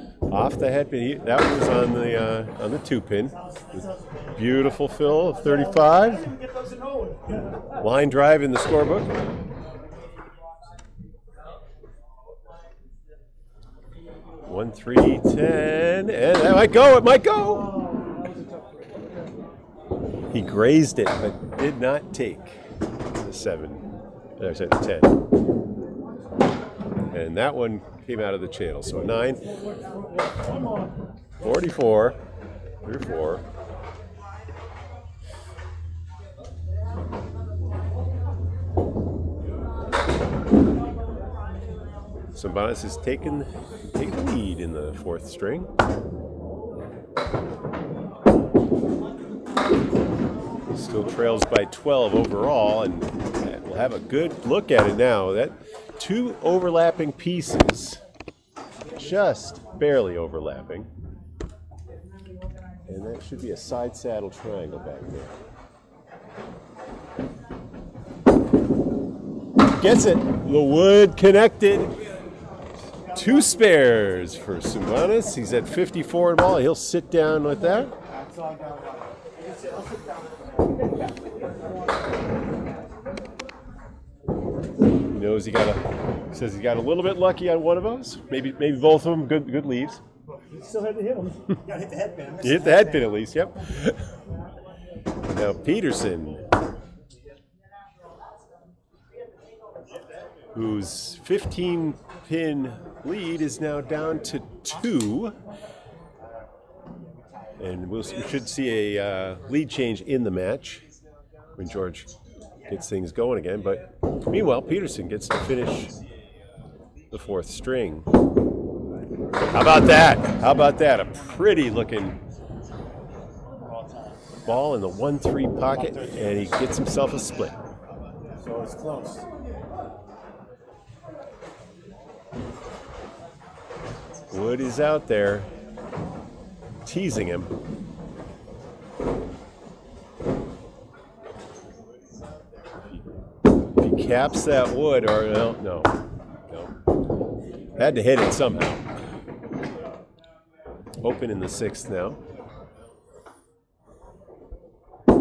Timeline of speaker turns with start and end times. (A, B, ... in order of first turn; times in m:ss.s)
0:00.3-0:06.2 A
0:03.4-0:07.8 B
0:07.8-0:09.2 A
0:14.5-0:17.8 A
0:17.4-0:19.3 B
0:20.3-0:22.6 A
0:23.2-0:23.9 A
0:24.4-0:25.2 A
0:27.1-0:29.5 A
0:29.5-0:31.0 B
0:31.4-0:32.2 A
0:32.8-0:33.4 A
0:42.3-0:45.7 A
0:50.7-0:58.0 A
0:58.9-1:00.9 A
1:02.8-1:05.3 A
1:09.6-1:11.9 A
1:13.1-1:17.9 A
1:18.0-1:19.3 C
1:19.4-1:22.3 B
1:25.1-1:30.0 A
1:30.3-1:32.9 B
1:31.7-1:33.0 C
1:32.4-1:34.1 A
1:35.2-1:36.5 A
1:40.5-1:45.4 A
1:47.6-1:50.8 A
1:51.6-1:52.1 A
1:52.6-1:55.9 A
1:57.1-1:58.1 A
1:59.5-2:02.2 A
2:04.4-2:07.6 A
2:08.4-2:09.2 C
2:14.3-2:15.5 A
2:16.8-2:17.5 A
2:23.7-2:25.9 A
2:27.7-2:28.8 A
2:31.0-2:32.2 A